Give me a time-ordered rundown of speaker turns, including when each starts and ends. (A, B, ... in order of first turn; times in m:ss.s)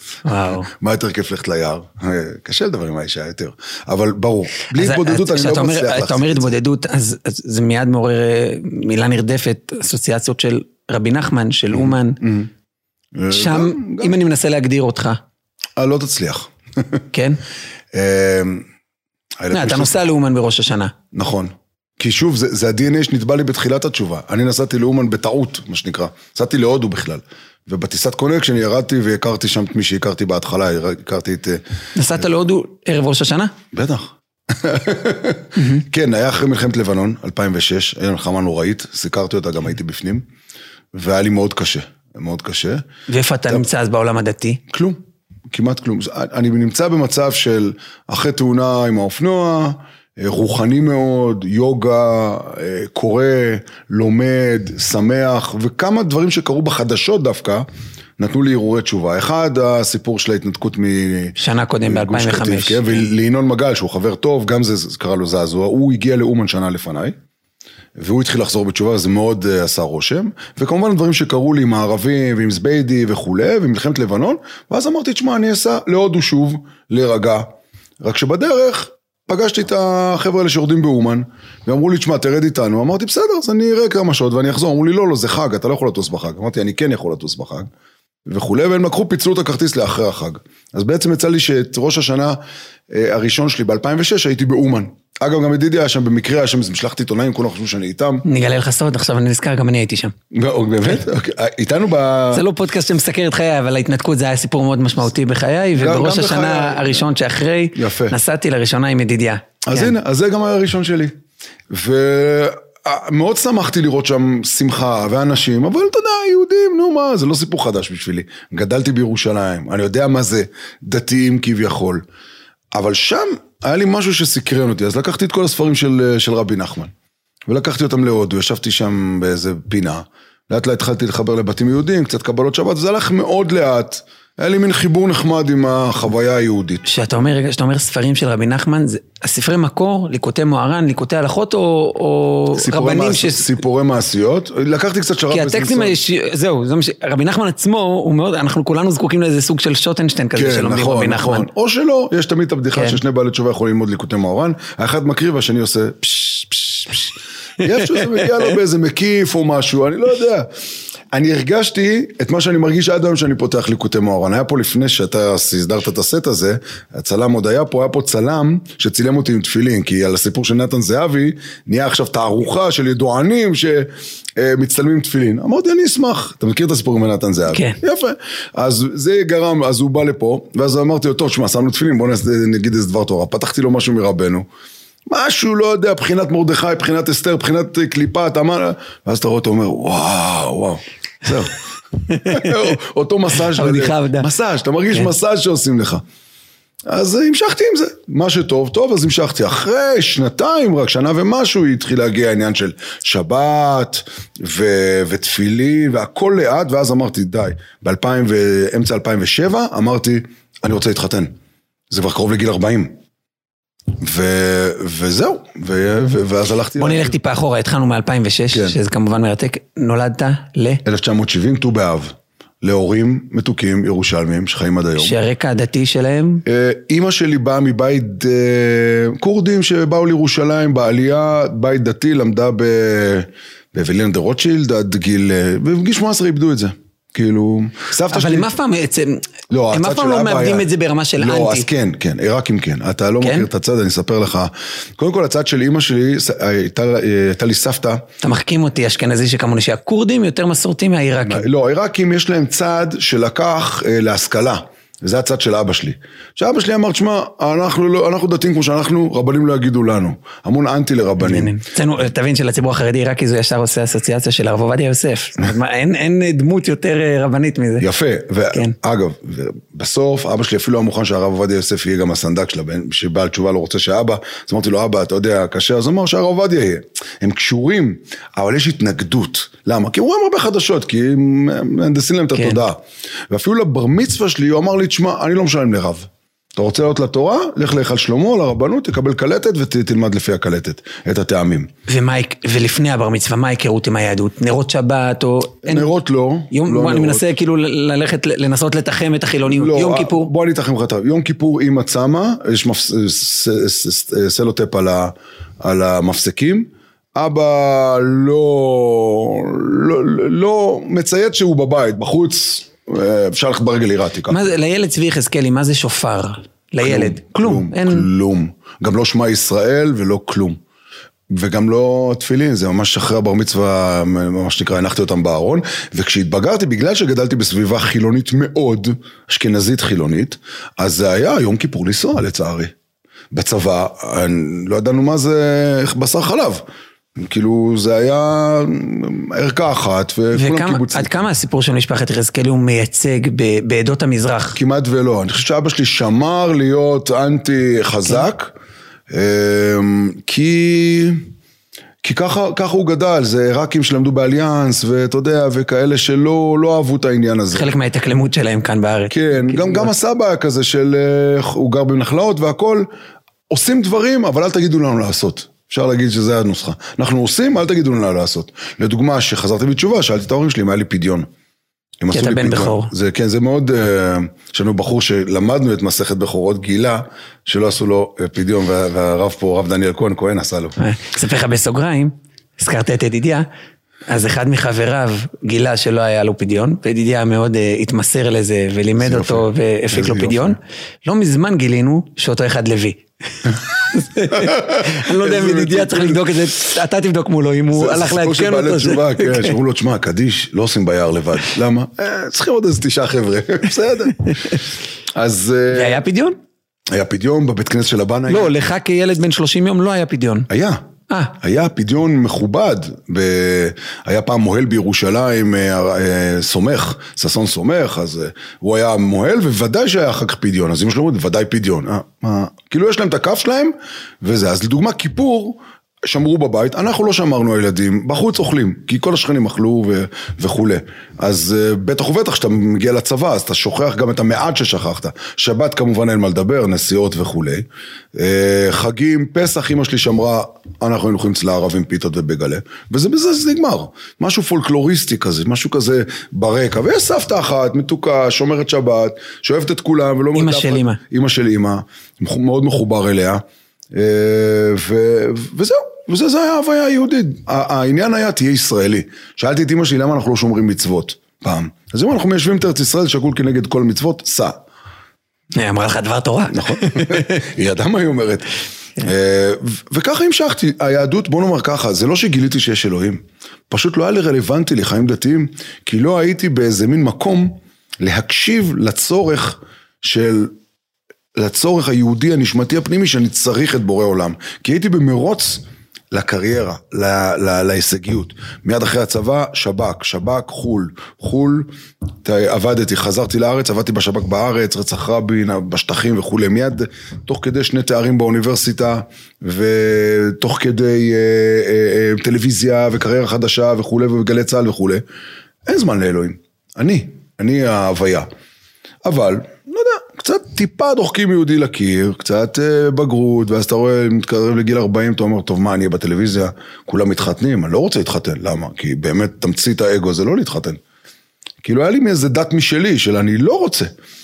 0:00.2-0:00.7 A
0:00.7-0:06.5 B
0:04.7-0:12.2 A
0:11.7-0:12.5 B
0:13.1-0:14.1 B
0:13.3-0:15.2 A
0:15.8-0:17.0 B
0:17.1-0:17.4 A
0:17.9-0:18.7 B
0:19.4-0:19.9 B
0:19.5-0:20.9 A
0:21.1-0:31.6 B
0:31.9-0:33.5 A
0:33.7-0:40.2 B
0:35.6-0:35.8 A
0:40.9-0:42.8 B
0:43.1-0:44.6 A
0:44.7-0:57.6 B
0:58.2-1:01.4 B
1:01.4-1:03.1 A
1:01.9-1:07.2 B
1:08.0-1:17.5 B
1:18.0-1:27.7 B
1:28.2-1:32.4 B
1:32.9-1:38.2 B
1:38.2-1:40.1 A
1:40.3-1:42.4 B
1:42.3-1:49.9 A
1:45.8-1:47.0 B
1:47.8-1:48.1 B
1:49.6-1:51.1 B
1:51.7-2:02.0 B
2:02.7-2:06.9 B
2:07.5-2:16.9 B
2:16.9-2:23.4 A
2:22.5-2:26.0 B
2:25.3-2:31.5 A
2:30.4-2:40.5 B
2:32.7-2:33.0 A
2:37.6-2:38.3 A
2:41.1-3:04.4 B
2:57.5-2:57.8 A
3:05.1-3:11.5 B
3:12.0-3:12.8 A
3:12.3-3:16.0 B
3:13.5-3:14.3 A
3:16.9-3:31.3 B
3:31.9-3:33.0 B
3:34.0-3:37.1 B
3:36.8-3:40.8 A
3:38.5-3:38.8 B
3:40.8-3:45.2 B
3:45.0-3:46.4 A
3:46.4-3:58.6 B
3:58.1-4:01.7 A
3:59.5-4:00.7 B
4:01.2-4:08.0 B
4:03.2-4:03.5 A
4:08.2-4:11.5 A
4:11.2-4:21.5 B
4:21.2-4:27.9 A
4:27.8-4:51.7 B
4:42.3-4:42.6 A
4:51.9-4:55.9 A
4:55.6-4:57.3 B
4:56.5-5:00.3 A
4:59.4-5:14.4 B
5:14.3-5:18.1 A
5:16.8-5:20.6 B
5:21.3-5:32.7 B
5:33.3-5:36.6 B
5:37.2-5:41.1 B
5:40.3-5:44.6 A
5:44.5-5:48.5 B
5:49.1-5:51.2 B
5:52.0-5:57.7 B
5:57.5-5:59.9 A
5:59.1-6:02.9 B
6:03.5-6:11.3 B
6:12.0-6:20.7 B
6:12.1-6:12.9 A
6:20.8-6:23.4 A
6:24.1-6:39.5 A
6:29.0-6:30.6 B
6:34.3-6:36.4 B
6:37.7-6:46.0 B
6:44.2-6:44.6 A
6:45.7-6:46.4 A
6:46.9-6:48.5 B
6:48.3-6:50.5 A
6:50.5-6:50.8 B
6:51.1-6:51.3 A
6:51.4-7:44.6 B
7:30.3-7:31.0 A
7:45.5-7:47.4 A
7:46.5-8:00.5 B
8:01.4-8:11.7 B
8:12.2-8:25.0 B
8:25.6-8:28.3 B
8:29.0-8:40.8 B
8:41.6-8:43.9 B